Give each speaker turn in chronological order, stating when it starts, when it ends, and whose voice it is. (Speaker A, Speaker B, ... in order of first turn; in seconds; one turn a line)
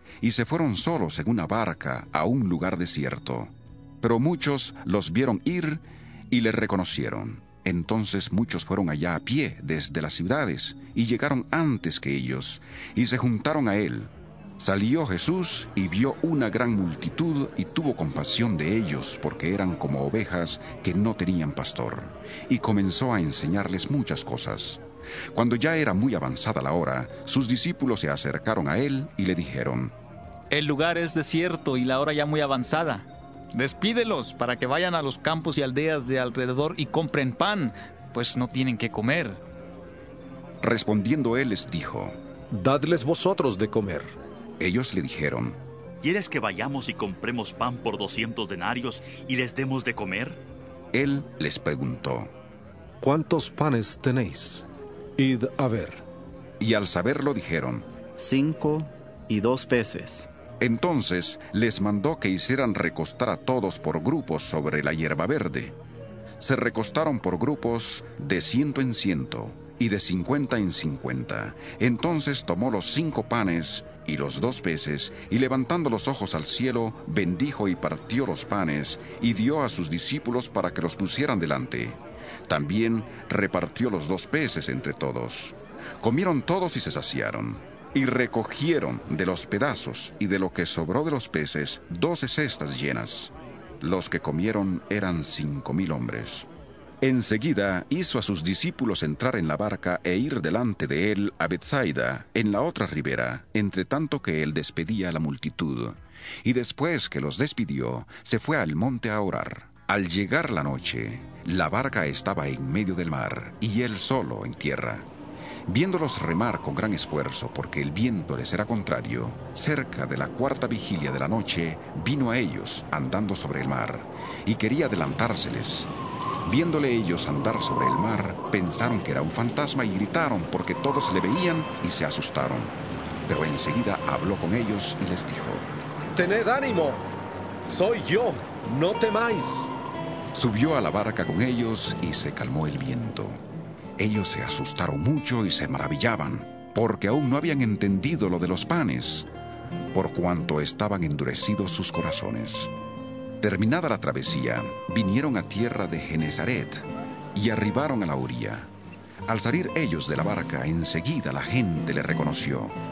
Speaker A: 0.2-24.8
Speaker A: 25.3-29.9
Speaker B: 30.5-39.4
Speaker A: 40.6-42.1
Speaker C: 42.5-44.1
Speaker A: 44.6-45.6
Speaker D: 46.0-50.4
Speaker A: 50.9-52.3
Speaker C: 53.0-54.7
Speaker C: 55.2-56.0
Speaker A: 56.6-57.9
Speaker E: 58.2-60.3
Speaker A: 60.6-65.7
Speaker A: 66.4-96.5
Speaker A: 97.0-115.1
Speaker A: 115.7-125.9
Speaker A: 126.4-132.7
Speaker A: 133.3-135.7
Speaker C: 136.1-137.0
Speaker C: 137.7-139.8
Speaker A: 140.3-143.4
Speaker A: 144.0-149.3
Speaker A: 149.9-152.7
Speaker A: 153.4-158.7
Speaker A: 159.3-162.8